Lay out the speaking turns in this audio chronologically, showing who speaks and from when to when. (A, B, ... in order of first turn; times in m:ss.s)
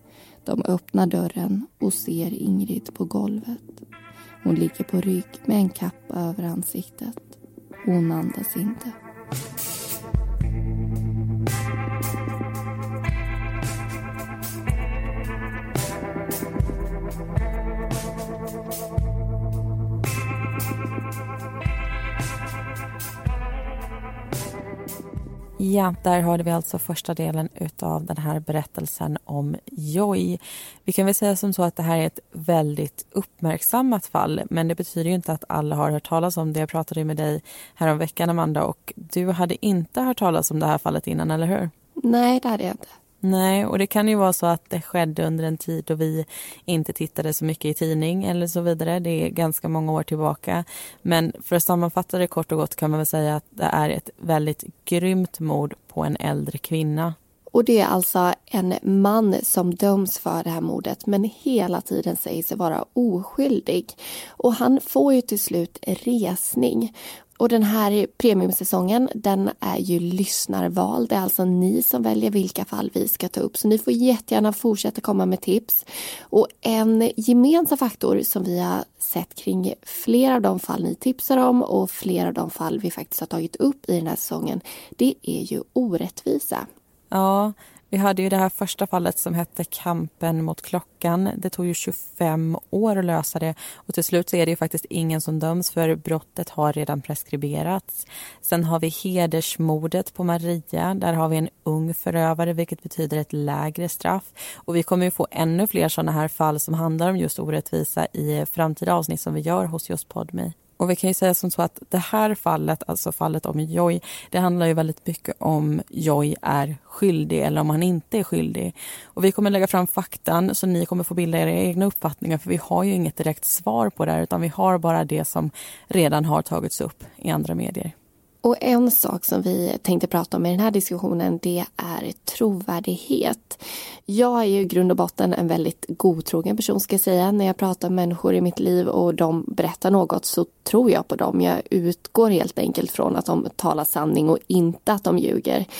0:00.4-0:03.8 A
0:04.4-0:08.9 A
0:25.6-0:41.7 B
0:42.0-0:42.9 A
0:43.2-0:57.2 B
0:57.5-1:26.7 A
1:27.1-2:07.9 B
2:08.4-2:25.7 A